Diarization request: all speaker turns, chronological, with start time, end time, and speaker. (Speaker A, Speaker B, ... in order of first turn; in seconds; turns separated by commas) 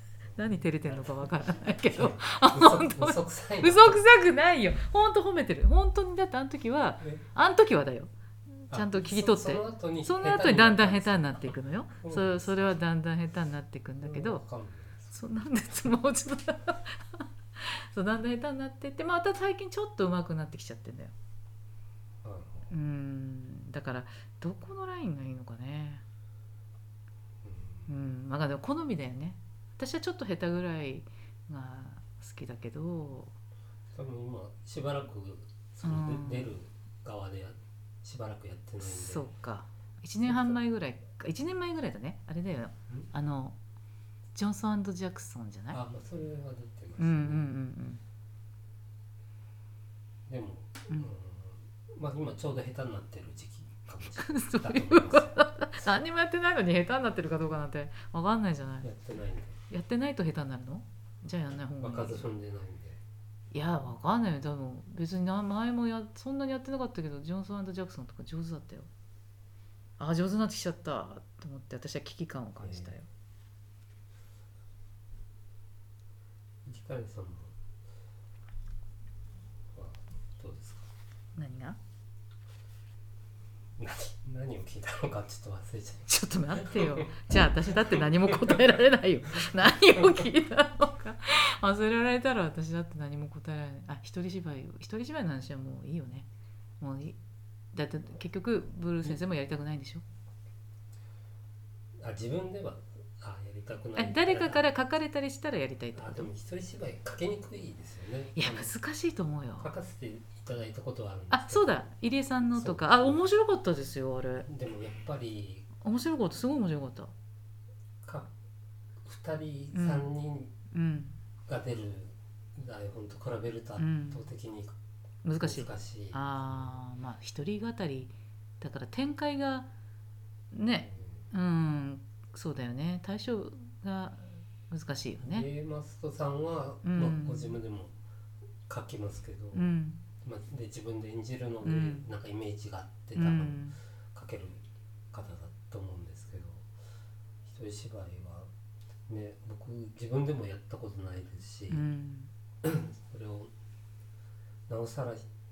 Speaker A: 0.2-4.0, Speaker B: 0.3-14.4, Speaker A: 8.7-12.8, Speaker A: 14.0-15.1, Speaker B: 15.1-21.1, Speaker A: 22.2-22.7, Speaker B: 22.7-26.0, Speaker A: 27.4-27.9, Speaker B: 27.9-33.3, Speaker A: 33.9-39.3, Speaker B: 35.8-36.5, Speaker B: 38.8-43.6, Speaker A: 40.2-40.6, Speaker B: 44.3-45.8, Speaker A: 45.7-47.5, Speaker B: 47.0-48.0, Speaker A: 50.3-55.4, Speaker B: 54.1-58.9, Speaker A: 58.8-59.6, Speaker B: 59.7-62.3, Speaker A: 61.8-63.0, Speaker B: 63.5-68.9, Speaker B: 70.0-73.1, Speaker A: 72.6-72.9, Speaker A: 76.6-77.5, Speaker A: 79.7-80.9, Speaker B: 81.3-81.8, Speaker A: 83.8-88.6, Speaker B: 86.1-96.3, Speaker A: 89.6-90.3, Speaker B: 96.8-97.2, Speaker B: 97.7-100.0, Speaker A: 102.0-104.6, Speaker B: 104.0-106.3, Speaker A: 105.9-108.7, Speaker B: 108.3-109.7, Speaker A: 109.6-111.9, Speaker B: 111.3-114.5, Speaker A: 112.5-113.2, Speaker A: 114.4-115.7, Speaker B: 115.8-117.1, Speaker A: 118.0-118.3, Speaker A: 119.0-120.5, Speaker B: 119.7-120.1, Speaker B: 120.7-121.1, Speaker A: 121.5-124.7, Speaker B: 123.8-124.2, Speaker B: 125.2-129.7, Speaker A: 125.4-126.7, Speaker B: 130.5-135.5, Speaker A: 130.8-131.2, Speaker A: 135.2-137.9, Speaker B: 136.8-137.6, Speaker A: 138.7-146.7, Speaker B: 139.5-140.0, Speaker B: 141.6-142.0, Speaker B: 143.2-143.8, Speaker A: 147.4-148.5, Speaker A: 149.1-151.8, Speaker B: 151.7-152.3, Speaker A: 152.6-153.5, Speaker A: 154.7-155.2